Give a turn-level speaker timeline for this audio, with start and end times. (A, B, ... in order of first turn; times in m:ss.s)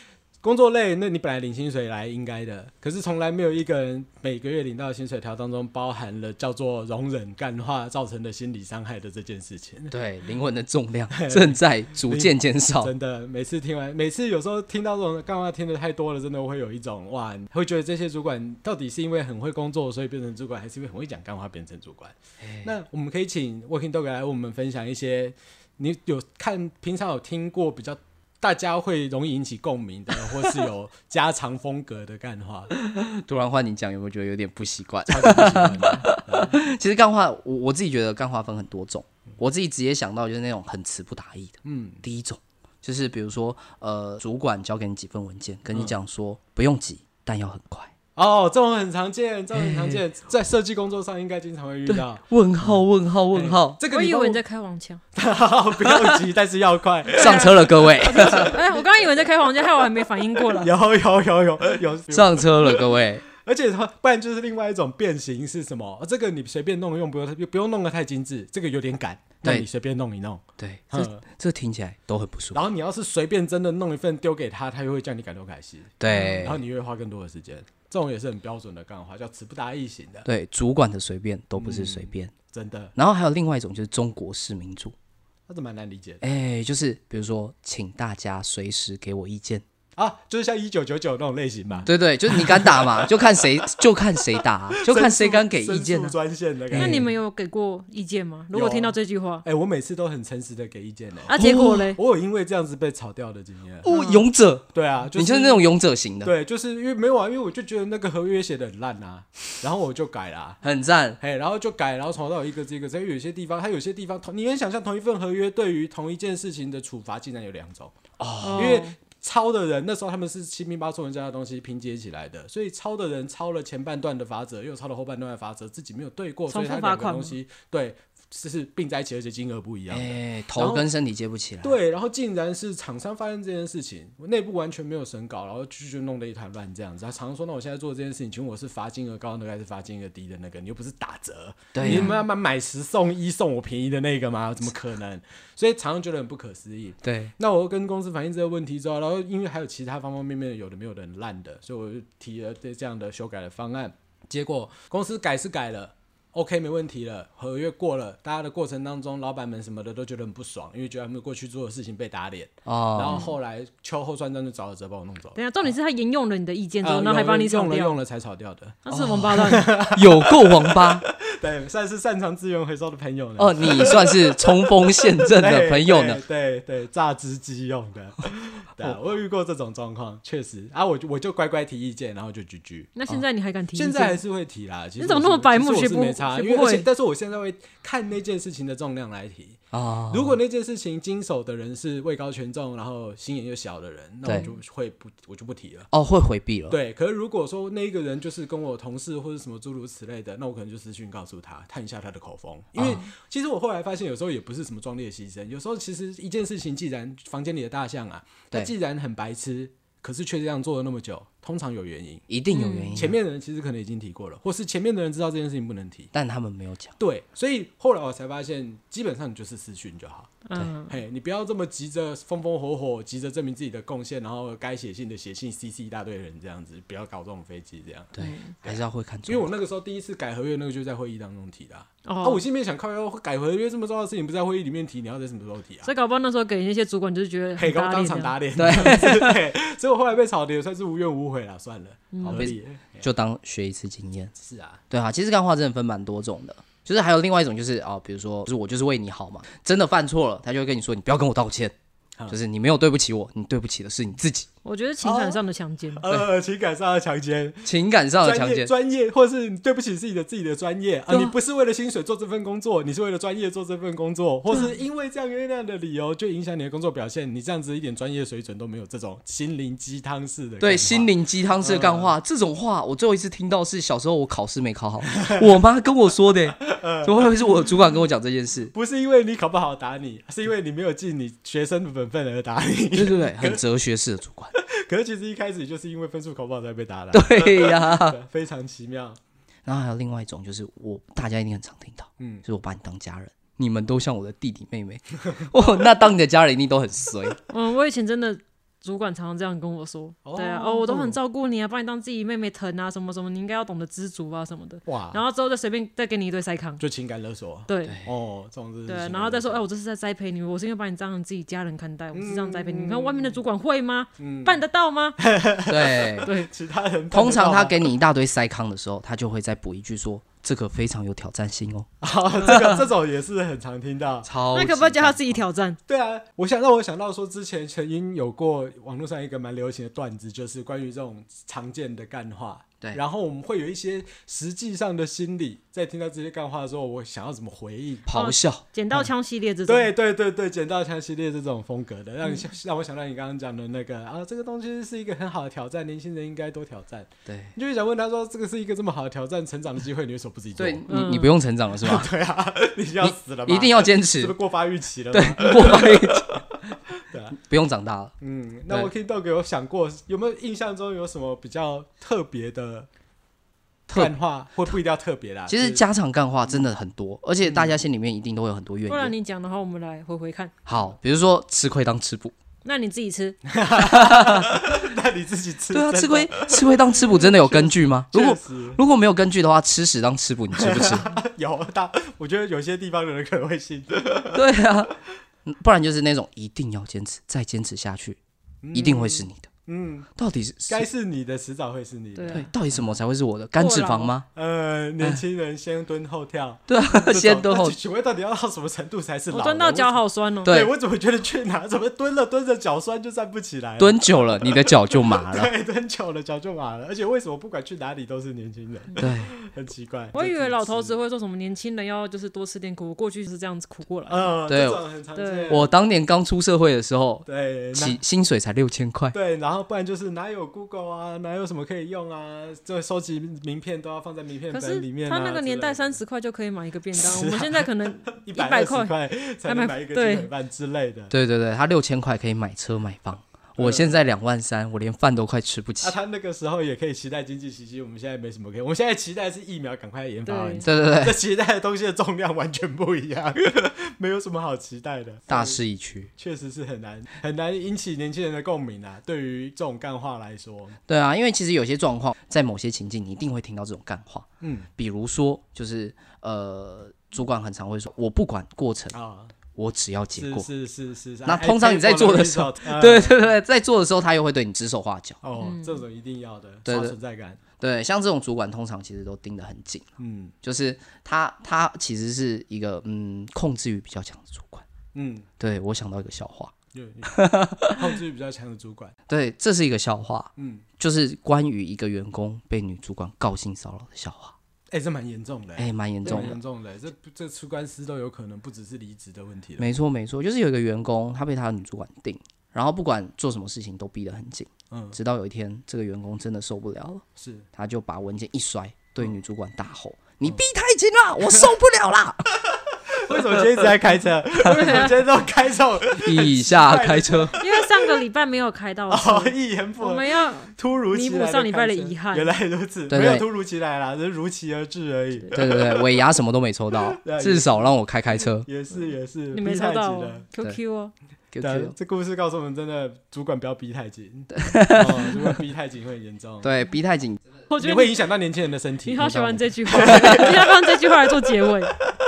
0:00.4-0:09.9 A
0:09.9-0:12.9 B
0:11.1-0:32.7 A
0:22.4-0:22.7 B
0:32.7-0:47.9 B
0:35.1-0:36.6 A
0:41.6-0:42.0 A
0:48.2-0:54.4 A
0:49.5-0:50.0 B
0:51.9-0:53.8 B
0:53.9-0:55.0 C
0:55.1-0:58.8 A
0:55.8-0:56.2 B
0:57.1-0:58.6 B
0:57.1-1:00.7 C
1:00.5-1:11.2 A
1:02.1-1:03.2 B
1:10.6-1:12.6 B
1:12.5-1:20.3 A
1:16.0-1:16.6 B
1:16.1-1:16.5 C
1:20.3-1:22.3 B
1:21.6-1:22.9 A
1:23.0-1:25.0 B
1:25.5-1:26.2 A
1:26.2-1:29.6 B
1:30.0-1:33.7 A
1:31.9-1:36.2 B
1:34.7-1:37.1 A
1:36.7-1:37.1 B
1:36.8-1:39.4 C
1:38.5-1:41.3 A
1:41.3-1:42.0 C
1:41.3-1:41.9 B
1:41.9-1:44.0 A
1:43.8-1:46.3 B
1:43.9-1:44.2 C
1:44.7-1:45.7 A
1:46.2-1:50.6 A
1:50.6-1:51.2 B
1:51.2-1:58.0 A
1:58.2-1:58.8 B
1:58.4-1:59.0 C
1:58.6-2:10.9 A
2:06.5-2:07.4 C
2:09.9-2:11.8 B
2:11.6-2:45.6 A
2:21.7-2:22.1 B
2:21.8-2:22.2 C
2:27.0-2:27.3 B
2:42.7-2:43.2 B
2:45.4-2:48.0 C
2:46.8-3:02.9 A
2:48.9-2:49.7 C
2:48.9-2:51.0 B
2:53.4-2:56.2 B
3:03.0-3:04.2 C
3:03.8-3:15.9 A
3:05.0-3:06.9 C
3:09.7-3:10.4 B
3:14.2-3:14.5 B
3:15.9-3:16.8 B
3:16.7-3:32.2 A
3:22.8-3:23.1 B
3:32.3-3:33.2 B
3:32.5-3:33.0 C
3:33.0-3:36.1 A
3:36.1-3:37.0 B
3:37.0-3:55.9 A
3:40.4-3:40.9 C
3:48.2-3:49.5 B
3:48.2-3:48.5 C
3:52.0-3:52.4 C
3:55.8-3:59.0 C
3:57.6-4:03.1 A
3:58.6-3:59.4 B
4:02.1-4:02.5 C
4:02.3-4:04.3 B
4:04.4-4:04.8 A
4:04.9-4:11.7 B
4:12.3-4:14.5 B
4:14.6-4:16.1 C
4:15.0-4:15.4 A
4:15.9-4:32.1 A
4:17.6-4:18.7 B
4:21.1-4:21.4 C
4:24.5-4:24.8 C
4:30.6-4:38.7 B
4:36.7-4:37.3 A
4:38.7-4:43.6 A
4:43.0-4:44.5 B
4:44.6-4:49.2 A
4:47.1-4:48.2 B
4:49.6-4:57.4 B
4:52.2-4:52.4 A
4:57.5-5:06.8 C
5:00.2-5:01.2 A
5:04.9-5:05.2 A
5:06.8-5:09.6 A
5:07.7-5:08.0 C
5:07.8-5:08.1 B
5:08.9-5:15.2 C
5:12.1-5:13.4 A
5:14.2-5:14.6 A
5:15.2-5:17.9 A
5:15.7-5:16.3 B
5:17.1-5:21.9 B
5:22.0-5:24.3 A
5:22.5-5:22.7 B
5:24.2-5:25.4 B
5:24.5-5:25.8 C
5:25.9-5:38.1 A
5:38.1-5:38.6 B
5:38.1-5:39.9 C
5:39.7-5:50.9 A
5:47.3-5:47.6 B
5:50.6-5:52.1 B
5:50.9-5:51.3 C
5:51.8-5:57.4 A
5:53.0-5:54.4 B
5:55.1-5:56.3 B
5:57.3-5:58.1 B
5:58.2-6:02.9 A
6:03.9-6:04.1 B
6:03.9-6:05.8 A
6:05.5-6:09.1 B
6:07.4-6:07.8 A
6:08.9-6:10.6 C
6:10.7-6:12.4 B
6:12.6-6:13.4 C
6:13.5-6:18.8 A
6:13.8-6:14.9 B
6:15.7-6:21.1 B
6:20.6-6:24.4 A
6:24.3-6:24.9 B
6:25.4-6:28.2 B
6:28.6-6:30.1 A
6:28.7-6:29.5 B
6:30.2-6:30.9 B
6:30.7-6:32.9 A
6:32.2-6:32.5 C
6:32.3-6:34.3 B
6:33.6-6:34.1 C
6:34.4-6:51.0 A
6:36.7-6:37.8 B
6:39.3-6:40.5 C
6:40.4-6:40.7 B
6:43.8-6:45.5 B
6:49.0-6:49.3 B
6:50.1-6:54.4 C
6:54.1-6:55.7 A
6:54.5-6:54.8 B
6:55.2-6:55.7 C
6:55.5-6:59.2 B
6:57.3-6:58.0 A
6:59.1-7:06.0 A
7:04.5-7:10.3 C
7:07.0-7:11.1 A
7:11.1-7:16.0 B
7:13.6-7:14.0 A
7:15.8-7:25.6 A
7:20.3-7:20.7 C
7:20.6-7:21.2 B
7:25.3-7:26.1 B
7:26.2-7:30.8 A
7:30.9-7:39.0 B
7:34.4-7:34.7 A
7:38.9-7:39.3 A
7:39.6-7:40.5 B
7:40.2-7:43.3 A
7:41.2-7:45.2 B
7:45.2-7:47.4 A
7:45.4-7:45.8 C
7:46.7-7:46.9 B
7:47.6-7:49.9 B
7:50.0-7:50.3 A
7:50.4-7:54.7 B
7:54.9-7:55.3 A
7:55.4-7:56.5 B
7:56.7-7:59.0 A
7:57.1-7:57.9 B
7:59.1-8:04.4 B
8:00.4-8:00.6 A
8:04.7-8:09.7 A
8:05.6-8:06.4 B
8:09.6-8:22.2 B
8:14.7-8:15.0 A
8:17.2-8:17.5 A
8:22.9-8:28.0 A
8:23.1-8:23.7 B
8:24.4-8:25.0 C
8:26.0-8:27.4 B
8:27.4-8:32.4 C
8:28.9-8:36.0 A
8:32.9-8:33.3 B
8:35.3-8:38.5 B
8:36.8-8:40.2 A
8:39.3-8:40.9 C
8:41.3-8:41.8 B
8:41.4-8:46.5 A
8:44.3-8:45.3 B
8:46.4-8:47.2 B
8:47.5-8:48.1 C
8:47.6-8:50.7 A
8:48.8-8:51.7 C
8:49.0-8:50.4 B